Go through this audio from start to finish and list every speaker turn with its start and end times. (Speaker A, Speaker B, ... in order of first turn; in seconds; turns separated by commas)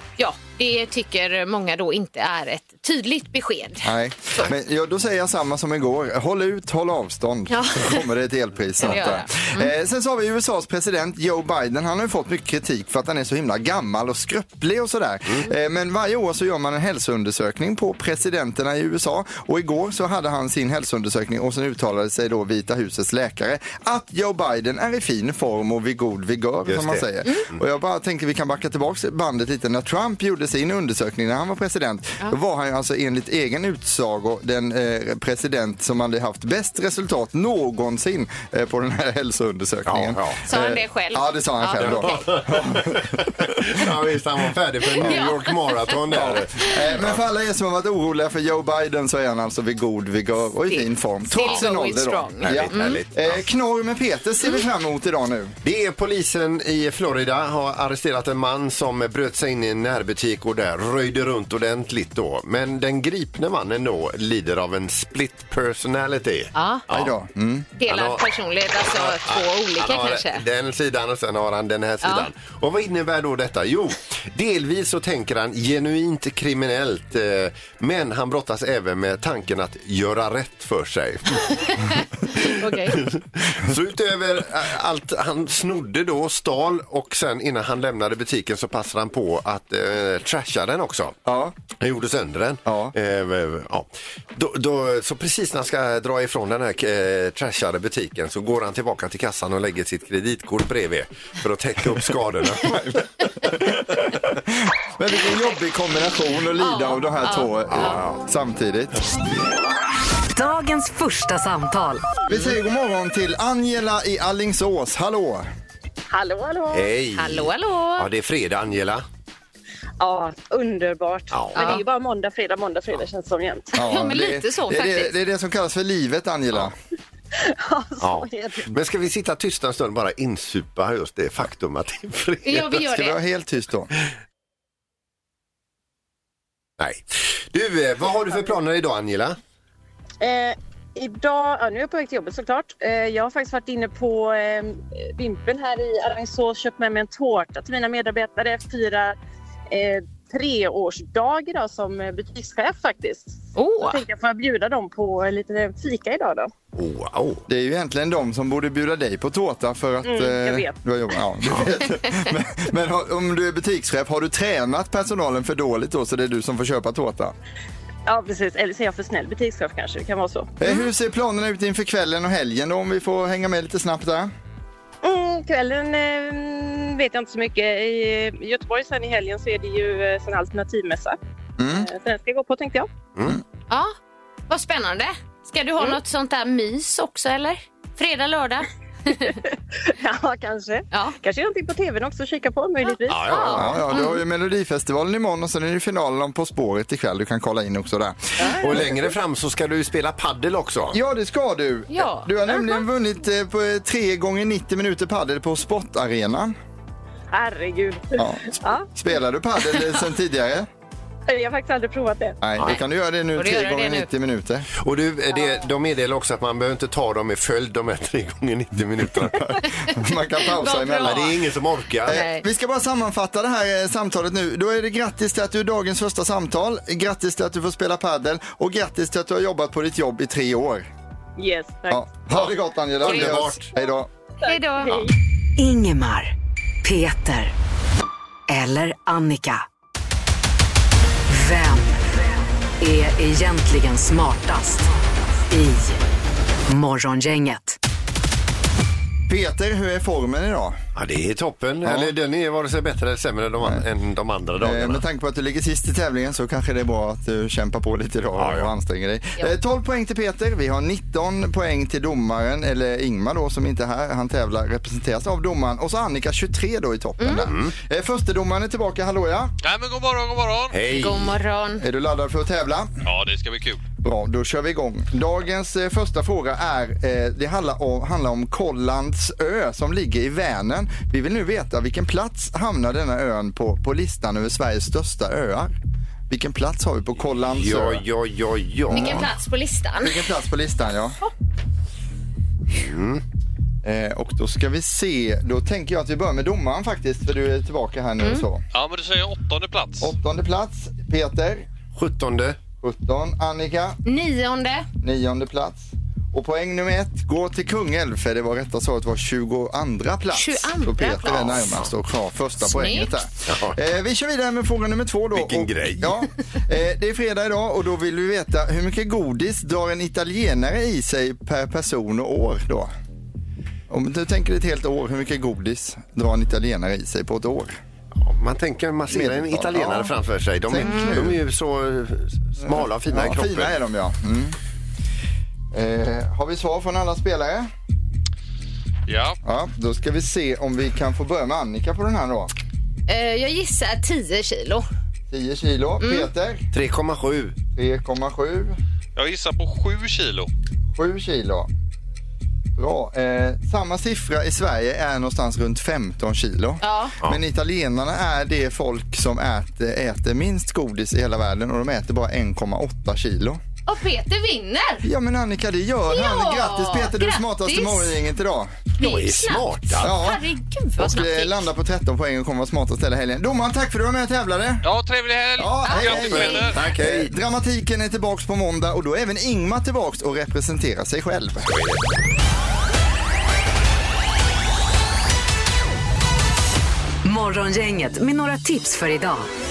Speaker A: 0.2-4.5, Speaker B: 3.8-43.4, Speaker A: 7.5-8.1, Speaker A: 8.8-9.7, Speaker C: 26.7-27.0, Speaker C: 39.9-40.4, Speaker A: 40.5-42.4, Speaker C: 41.8-46.5, Speaker A: 44.8-46.7, Speaker B: 46.1-55.6, Speaker A: 50.7-53.0, Speaker C: 52.4-53.4, Speaker C: 55.6-67.1, Speaker A: 66.5-66.8, Speaker B: 66.9-67.7, Speaker A: 67.8-70.4, Speaker C: 67.8-68.2, Speaker C: 68.8-91.2, Speaker A: 72.0-72.3, Speaker A: 81.7-83.0, Speaker B: 91.3-91.6, Speaker C: 91.7-102.8, Speaker B: 92.7-92.9, Speaker B: 102.6-109.0, Speaker A: 106.6-108.0, Speaker C: 107.8-108.2, Speaker D: 110.3-112.2, Speaker B: 112.3-115.5, Speaker E: 116.1-116.9, Speaker C: 116.7-119.0, Speaker A: 117.1-118.1, Speaker E: 120.0-123.7, Speaker C: 121.3-121.7, Speaker A: 121.5-121.8, Speaker B: 123.7-126.8, Speaker A: 123.8-125.2, Speaker E: 127.5-128.7, Speaker C: 128.0-132.8, Speaker A: 132.5-133.2, Speaker B: 132.9-133.9, Speaker C: 136.8-139.4, Speaker E: 140.2-149.2, Speaker E: 149.7-156.5, Speaker A: 153.6-154.0, Speaker C: 156.8-157.4, Speaker B: 157.5-167.3, Speaker E: 160.0-160.8, Speaker E: 168.1-170.5, Speaker B: 170.6-174.3, Speaker E: 175.0-182.9, Speaker B: 181.6-181.9, Speaker C: 183.2-183.4, Speaker A: 184.5-189.3, Speaker E: 189.2-193.7, Speaker C: 193.1-193.8, Speaker A: 193.2-194.2, Speaker B: 193.6-198.8, Speaker E: 198.4-199.0, Speaker C: 198.6-201.0, Speaker B: 200.9-206.6, Speaker A: 201.9-202.8, Speaker E: 207.3-208.9, Speaker B: 208.2-210.7, Speaker E: 211.3-212.4, Speaker B: 212.4-214.7, Speaker A: 213.3-214.1, Speaker C: 214.7-219.5, Speaker B: 219.4-221.3, Speaker A: 220.4-221.3, Speaker C: 221.0-222.2, Speaker B: 222.1-230.9, Speaker A: 222.1-222.4, Speaker E: 231.4-232.2, Speaker B: 231.9-234.1, Speaker C: 233.0-233.7, Speaker E: 234.4-235.1, Speaker A: 234.4-235.0, Speaker D: 235.6-236.3, Speaker D: 236.8-237.5, Speaker D: 238.5-239.6, Speaker D: 241.3-242.1, Speaker D: 242.8-244.9, Speaker D: 245.5-246.0, Speaker D: 246.7-247.8, Speaker B: 249.3-250.8, Speaker C: 251.0-255.0, Speaker B: 251.8-252.1, Speaker B: 254.6-269.5, Speaker C: 258.4-258.7, Speaker A: 267.2-267.5, Speaker C: 267.4-267.7, Speaker F: 269.6-270.8, Speaker C: 270.7-271.4, Speaker A: 270.9-271.8, Speaker B: 271.8-273.0, Speaker F: 273.0-273.8, Speaker B: 274.0-285.7, Speaker B: 286.3-288.0, Speaker C: 287.5-289.3, Speaker A: 288.9-290.2, Speaker B: 288.9-289.3, Speaker B: 290.0-291.2, Speaker C: 292.7-293.2, Speaker B: 293.8-298.6, Speaker F: 298.7-300.1, Speaker B: 300.0-301.7, Speaker C: 302.0-302.6, Speaker B: 302.8-304.0, Speaker A: 304.1-304.9, Speaker B: 305.0-322.9, Speaker A: 310.3-311.8, Speaker A: 312.6-313.1, Speaker C: 313.5-313.8, Speaker C: 315.3-316.2, Speaker B: 323.9-327.8, Speaker C: 328.1-333.8, Speaker B: 329.1-330.1, Speaker B: 330.7-331.4, Speaker A: 330.8-331.2, Speaker B: 332.6-334.6, Speaker B: 335.7-337.7, Speaker F: 339.1-339.4, Speaker B: 339.4-342.5, Speaker A: 343.1-344.9, Speaker B: 345.3-346.7, Speaker A: 346.0-346.3, Speaker C: 346.7-347.6, Speaker B: 347.8-348.8, Speaker F: 349.2-350.5, Speaker B: 351.0-351.7, Speaker B: 352.8-363.6, Speaker A: 356.8-357.2, Speaker A: 363.9-365.1, Speaker B: 365.0-368.8, Speaker A: 366.1-368.2, Speaker C: 369.0-370.1, Speaker A: 369.0-371.7, Speaker B: 370.0-370.4, Speaker B: 371.0-374.9, Speaker F: 374.8-376.9, Speaker B: 375.6-381.7, Speaker A: 375.8-376.7, Speaker C: 376.7-377.3, Speaker C: 381.7-382.0, Speaker D: 387.2-389.5